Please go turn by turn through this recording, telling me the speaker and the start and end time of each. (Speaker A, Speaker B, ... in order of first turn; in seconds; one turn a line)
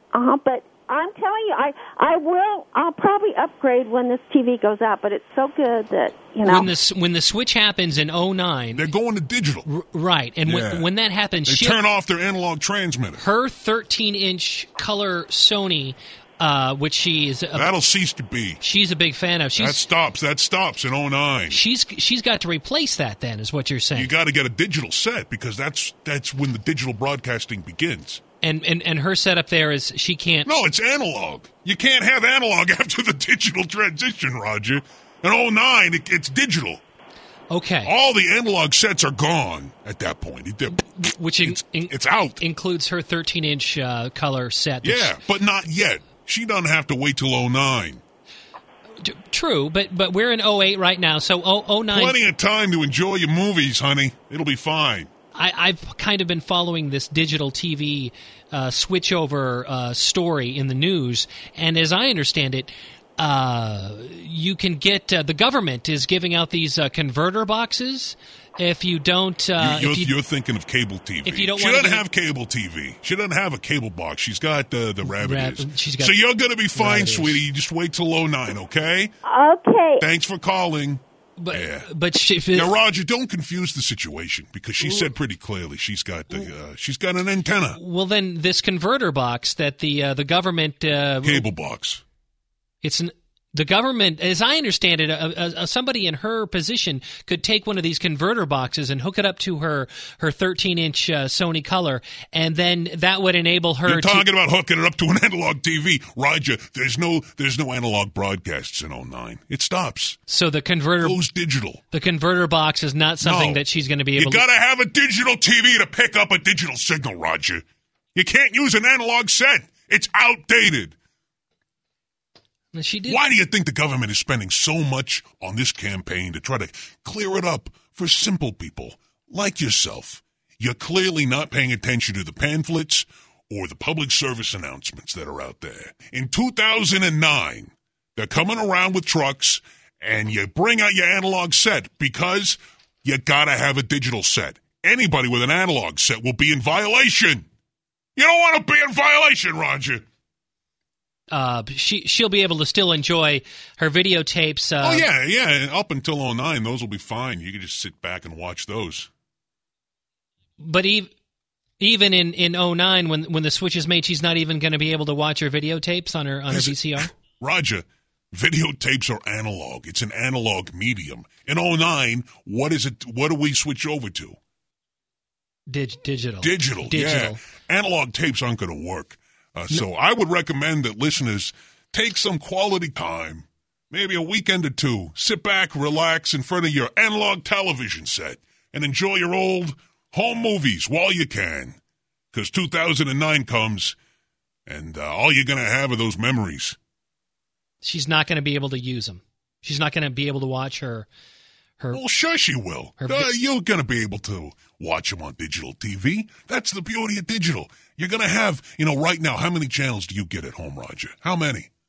Speaker A: 0.1-6.7
Speaker B: 6.4-8.8
Speaker C: 8.7-9.7
Speaker B: 9.7-11.8
Speaker C: 10.4-10.9
Speaker C: 11.4-13.2
Speaker B: 13.2-17.7
Speaker C: 17.5-18.6
Speaker B: 18.6-19.8
Speaker C: 19.6-21.6
Speaker B: 21.5-24.1
Speaker C: 23.9-28.2
Speaker B: 28.4-30.5
Speaker C: 30.4-36.8
Speaker B: 37.5-37.9
Speaker C: 37.8-42.4
Speaker B: 40.7-45.1
Speaker C: 44.8-48.0
Speaker B: 49.0-52.1
Speaker C: 51.9-55.1
Speaker B: 55.3-70.1
Speaker C: 69.6-79.1
Speaker B: 71.2-72.0
Speaker B: 75.0-76.1
Speaker B: 76.7-77.4
Speaker A: 79.2-80.0
Speaker C: 80.0-81.9
Speaker B: 81.4-82.7
Speaker C: 82.5-87.8
Speaker B: 84.8-85.1
Speaker B: 87.7-91.5
Speaker C: 91.2-92.0
Speaker B: 92.8-104.2
Speaker C: 103.8-110.2
Speaker B: 110.3-111.2
Speaker C: 111.0-111.8
Speaker B: 111.9-114.4
Speaker C: 113.2-113.6
Speaker C: 114.1-117.6
Speaker C: 118.1-120.9
Speaker B: 122.7-123.2
Speaker C: 123.1-147.5
Speaker C: 148.2-150.0
Speaker B: 151.3-155.1
Speaker C: 154.8-159.1
Speaker B: 160.6-161.1
Speaker B: 161.8-167.1
Speaker C: 166.5-174.4
Speaker B: 175.7-177.4
Speaker C: 176.4-191.8
Speaker C: 192.3-194.0
Speaker C: 194.7-196.8
Speaker B: 197.8-201.1
Speaker C: 201.9-211.7
Speaker B: 203.0-203.3